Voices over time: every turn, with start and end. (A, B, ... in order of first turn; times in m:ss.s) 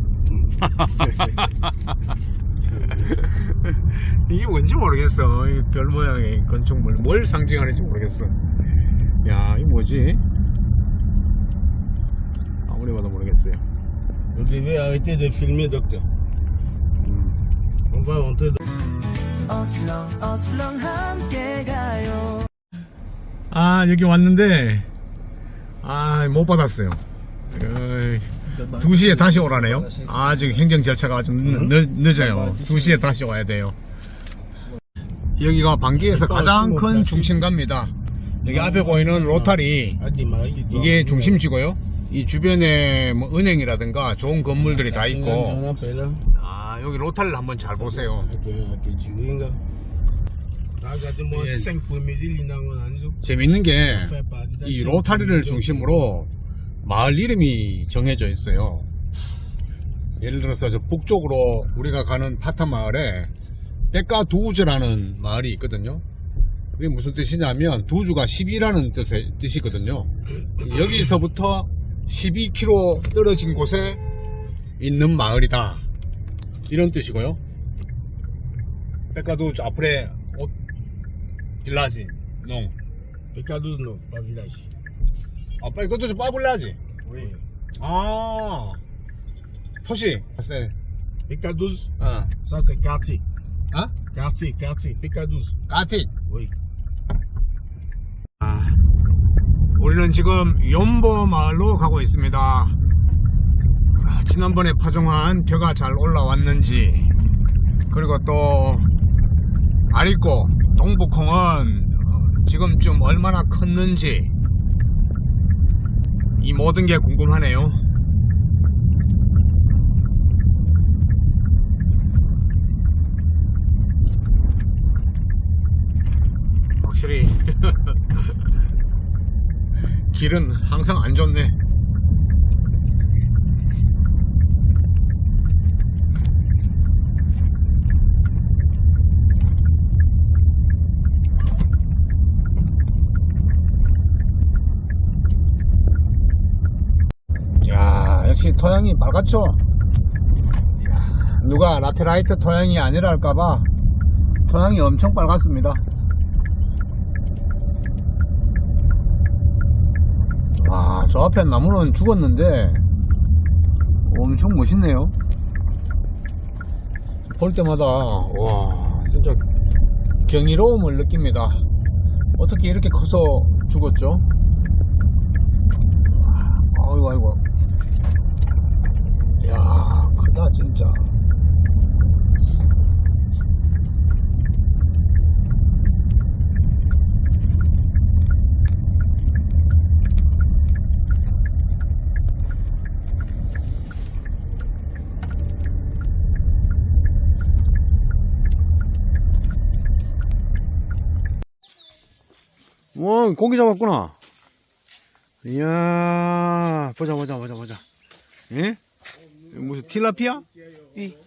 0:00.3-0:01.4 A
0:00.6-0:01.7 B
0:02.7-0:03.1 A
0:03.1-0:08.4 B
0:09.2-0:10.2 B
0:12.6-0:13.6 B
0:14.3-0:16.1 A
0:17.0-0:17.4 B
0:17.9-0:18.6 A
0:19.3-0:22.5 C
0:23.5-0:24.9 B
0:25.8-0:33.8 B
0:35.4-0:40.0 B
0:36.1-0:37.4 A
0:38.5-0:41.4 A
0:40.7-0:45.6 B
0:44.7-0:46.2 A
0:46.3-0:48.3 B
0:47.8-0:49.6 A
0:50.8-0:53.2 A
0:51.3-0:51.7 B
0:53.2-0:56.3 B
0:53.9-0:56.0 A
0:56.8-0:58.9 B
1:00.2-1:03.3 B
1:03.9-1:06.0 B
1:06.8-1:14.0 B
1:14.8-1:15.8 B
1:16.7-1:17.4 B
1:19.1-1:20.5 B
1:21.6-1:22.7 B
1:23.3-1:24.7 A
1:25.6-1:26.8 B
1:27.0-1:27.4 A
1:27.8-1:28.8 B
1:29.8-1:30.7 B
1:31.3-1:33.2 A
1:32.0-1:32.3 B
1:34.0-1:35.6 A
1:35.7-1:36.1 B
1:36.3-1:36.5 A
1:38.4-1:38.8 B
1:39.8-1:42.8 B
1:43.9-1:47.1 B
1:47.9-1:48.9 B
1:49.9-1:54.3 B
1:56.4-1:57.8 B
2:06.8-2:08.4 B
2:10.1-2:11.6 B
2:27.6-2:29.6 B
2:30.8-2:33.7 B
2:34.4-2:35.8 B
2:40.6-2:42.8 B
2:44.0-2:45.1 B
2:47.3-2:49.4 B
2:50.2-2:51.6 B
2:52.4-2:54.2 B
2:56.1-2:57.4 B
2:59.4-3:01.2 B
3:22.9-3:24.1 B
3:25.4-3:27.8 B
3:28.5-3:28.8 B
3:29.5-3:30.4 B